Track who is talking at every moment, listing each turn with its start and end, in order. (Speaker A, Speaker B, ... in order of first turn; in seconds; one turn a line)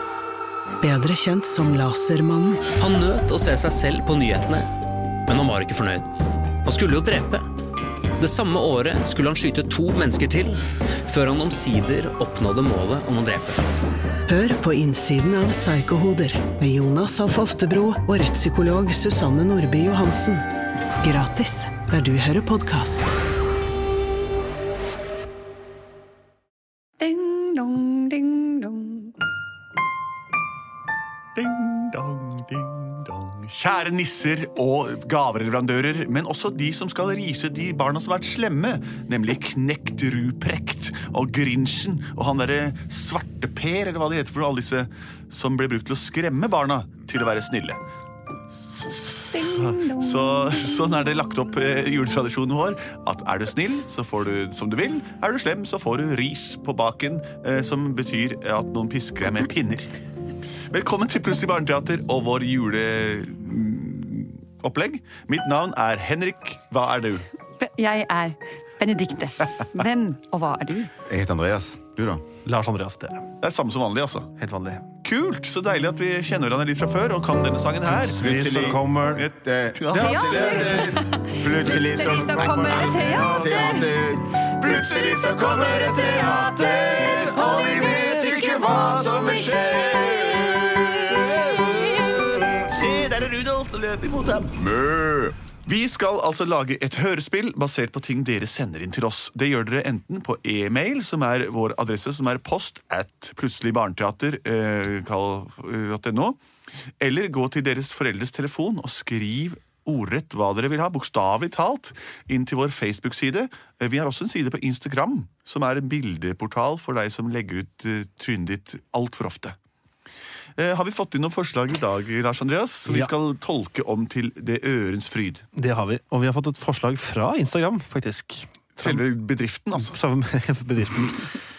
Speaker A: 0.8-2.6
Speaker B: 2.8-4.7
Speaker B: 5.3-6.1
Speaker B: 6.6-7.5
Speaker B: 8.2-13.6
Speaker A: 14.3-20.4
Speaker A: 21.0-23.1
Speaker C: 27.0-29.1
Speaker D: 31.4-47.8
Speaker D: 48.5-59.9
Speaker C: 49.6-50.2
Speaker D: 60.7-67.2
Speaker C: 67.6-70.9
Speaker E: 71.1-72.2
Speaker F: 72.5-73.3
Speaker D: 73.4-74.3
Speaker F: 74.4-74.9
Speaker D: 75.0-80.9
Speaker E: 78.0-92.7
Speaker F: 78.1-79.3
Speaker F: 79.9-80.2
Speaker C: 80.1-83.9
Speaker D: 82.8-91.5
Speaker D: 92.7-94.5
Speaker E: 94.6-95.4
Speaker D: 95.6-106.4
Speaker D: 107.0-119.6
Speaker D: 120.6-125.5
Speaker F: 122.9-123.1
Speaker F: 125.5-129.1
Speaker D: 128.8-130.0
Speaker F: 129.7-131.3